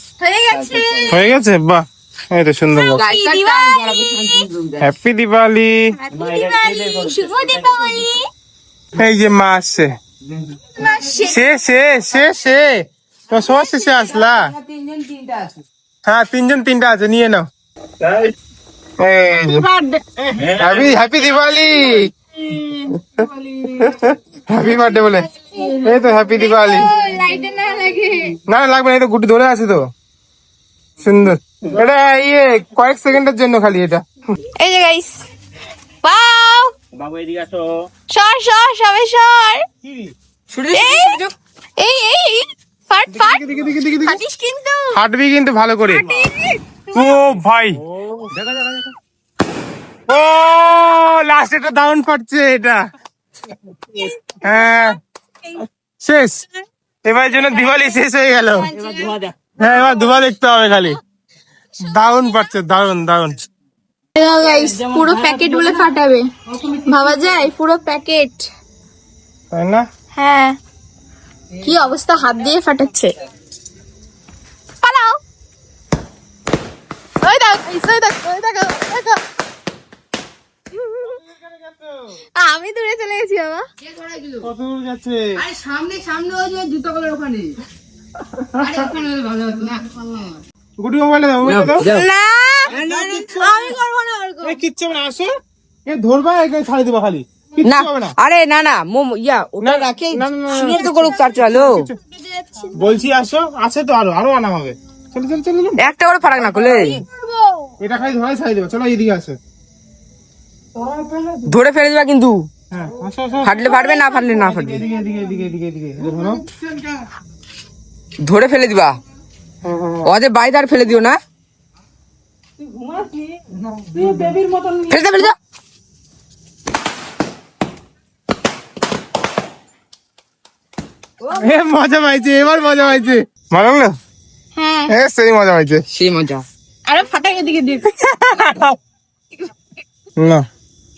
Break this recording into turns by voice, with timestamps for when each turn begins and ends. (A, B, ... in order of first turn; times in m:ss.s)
0:00.2-0:01.3 A
0:00.5-0:01.1 B
0:01.1-0:03.0 C
0:02.8-0:04.2 A
0:03.0-0:04.9 B
0:04.8-0:05.9 C
0:06.0-0:08.2 A
0:06.1-0:08.0 B
0:09.0-0:09.9 C
0:10.4-0:11.1 B
0:10.8-0:11.4 A
0:11.2-0:14.5 C
0:13.3-0:14.0 A
0:14.0-0:15.6 B
0:16.0-0:17.4 C
0:18.0-0:18.3 C
0:19.0-0:19.7 C
0:19.4-0:20.0 A
0:20.4-0:22.1 C
0:22.4-0:23.9 A
0:22.9-0:26.9 C
0:25.6-0:28.4 A
0:28.5-0:29.8 C
0:31.0-0:34.0 C
0:34.6-0:35.2 A
0:36.0-0:36.7 A
0:37.0-0:37.7 B
0:38.1-0:39.6 A
0:39.8-0:40.1 C
0:40.5-0:41.3 B
0:40.7-0:41.2 A
0:41.8-0:43.4 A
0:43.1-0:44.2 C
0:43.9-0:45.0 A
0:44.9-0:46.1 C
0:45.9-0:47.2 A
0:46.9-0:48.9 C
0:50.1-0:52.8 C
0:54.0-0:54.9 A
0:54.4-0:55.0 C
0:56.0-0:56.4 C
0:57.0-0:58.7 C
0:58.7-0:59.1 A
0:58.7-0:59.3 B
0:59.6-1:01.0 C
1:01.8-1:03.4 C
1:04.2-1:08.5 A
1:04.8-1:05.7 B
1:09.5-1:09.8 C
1:10.1-1:10.6 A
1:11.6-1:13.2 A
1:14.8-1:15.2 A
1:17.2-1:19.2 A
1:20.7-1:21.2 A
1:21.0-1:21.9 C
1:22.3-1:23.6 A
1:23.8-1:24.5 B
1:24.4-1:25.2 C
1:25.4-1:27.6 B
1:28.4-1:28.7 C
1:28.6-1:30.2 B
1:30.8-1:32.0 C
1:31.4-1:32.1 B
1:31.8-1:34.6 A
1:32.7-1:33.4 B
1:32.7-1:33.8 C
1:34.4-1:35.3 C
1:35.8-1:38.1 C
1:37.6-1:41.9 B
1:39.6-1:41.9 C
1:40.6-1:41.6 A
1:42.2-1:42.8 A
1:42.7-1:45.8 C
1:45.8-1:47.0 B
1:46.4-1:47.7 A
1:47.8-1:49.4 C
1:50.8-1:51.3 C
1:51.4-1:52.4 B
1:52.7-1:53.8 C
1:53.4-1:54.8 B
1:53.7-1:54.4 A
1:54.4-1:56.4 C
1:58.2-1:59.0 B
2:00.0-2:01.2 B
2:03.9-2:05.4 B
2:11.3-2:13.9 C
2:12.0-2:13.1 A
2:14.6-2:14.9 A
2:14.9-2:15.8 C
2:15.9-2:16.4 B
2:16.8-2:17.9 A
2:18.0-2:18.7 C
2:20.2-2:20.4 C